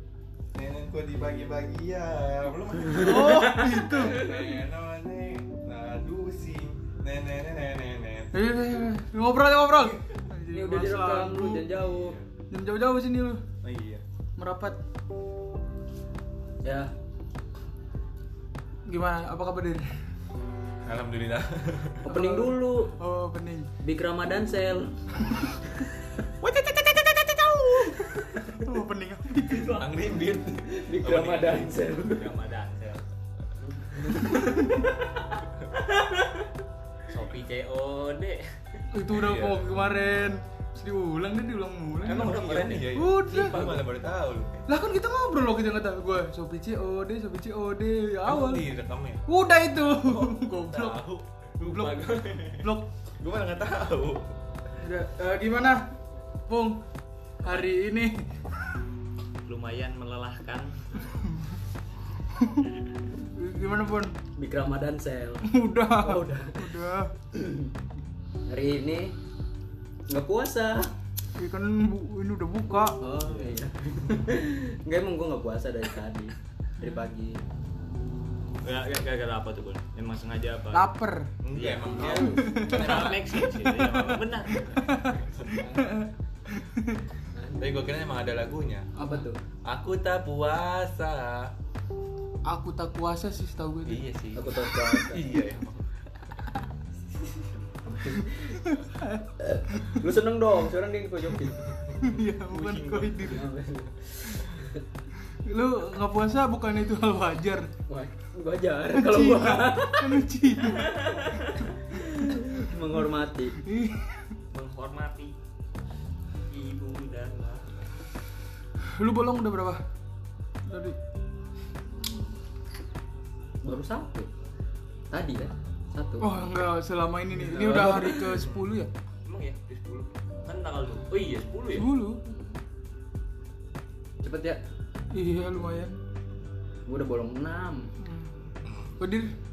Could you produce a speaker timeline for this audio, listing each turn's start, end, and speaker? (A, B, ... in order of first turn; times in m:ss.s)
0:00.5-0:08.4 A
0:02.9-0:04.4 B
0:03.0-0:04.0 C
0:08.3-0:11.7 B
0:10.5-0:12.2 C
0:11.7-0:12.3 A
0:12.5-0:13.4 B
0:13.6-0:14.0 A
0:14.4-0:14.8 B
0:16.6-0:16.9 C
0:18.9-0:20.0 B
0:20.8-0:22.1 A
0:22.0-0:23.0 C
0:22.0-0:23.7 B
0:23.8-0:24.9 C
0:26.4-0:28.0 A
0:28.1-0:28.6 C
0:28.6-0:29.9 B
0:29.5-0:30.0 D
0:29.6-0:31.8 A
0:30.6-0:32.3 C
0:31.5-0:33.0 D
0:33.7-0:35.4 C
0:34.3-0:34.8 B
0:37.1-0:38.8 D
0:38.9-0:43.7 B
0:39.1-0:39.8 A
0:42.0-0:44.5 A
0:42.0-0:43.8 D
0:44.7-0:48.7 B
0:48.2-0:49.2 A
0:49.3-0:51.0 B
0:50.0-0:51.3 A
0:51.6-0:52.7 D
0:51.6-0:52.9 B
0:53.2-0:54.4 A
0:54.8-0:55.9 B
0:56.5-0:56.8 B
0:57.4-0:57.7 D
0:57.4-0:58.2 B
0:59.5-1:01.1 D
1:02.4-1:02.7 B
1:03.2-1:04.2 B
1:04.4-1:06.7 C
1:05.5-1:07.1 B
1:07.3-1:07.7 C
1:08.5-1:09.2 C
1:10.1-1:10.9 C
1:11.4-1:13.0 B
1:13.0-1:17.4 C
1:13.2-1:13.6 D
1:18.6-1:20.9 D
1:20.7-1:21.3 B
1:21.4-1:22.5 A
1:21.6-1:25.0 D
1:21.9-1:23.1 C
1:22.1-1:27.0 B
1:25.2-1:25.8 A
1:27.3-1:27.7 C
1:27.6-1:28.9 A
1:29.0-1:29.4 C
1:29.6-1:31.5 A
1:32.5-1:34.0 B
1:33.9-1:36.0 A
1:34.3-1:35.3 C
1:37.9-1:38.6 C
1:38.2-1:40.0 B
1:39.4-1:41.7 C
1:42.0-1:43.5 B
1:42.5-1:43.3 D
1:43.2-1:44.8 C
1:45.5-1:47.7 B
1:47.9-1:53.6 C
1:48.9-1:51.2 B
1:53.6-1:54.4 B
1:54.5-1:55.4 D
1:56.5-1:57.9 D
1:58.8-1:59.8 B
2:00.7-2:01.0 B
2:03.6-2:04.3 C
2:05.1-2:06.3 C
2:06.2-2:08.9 B
2:07.4-2:08.4 C
2:09.3-2:11.9 D
2:11.7-2:12.2 B
2:14.2-2:14.6 C
2:15.1-2:16.0 B
2:16.9-2:17.9 C
2:18.0-2:18.4 B
2:18.6-2:19.0 A
2:19.0-2:19.3 B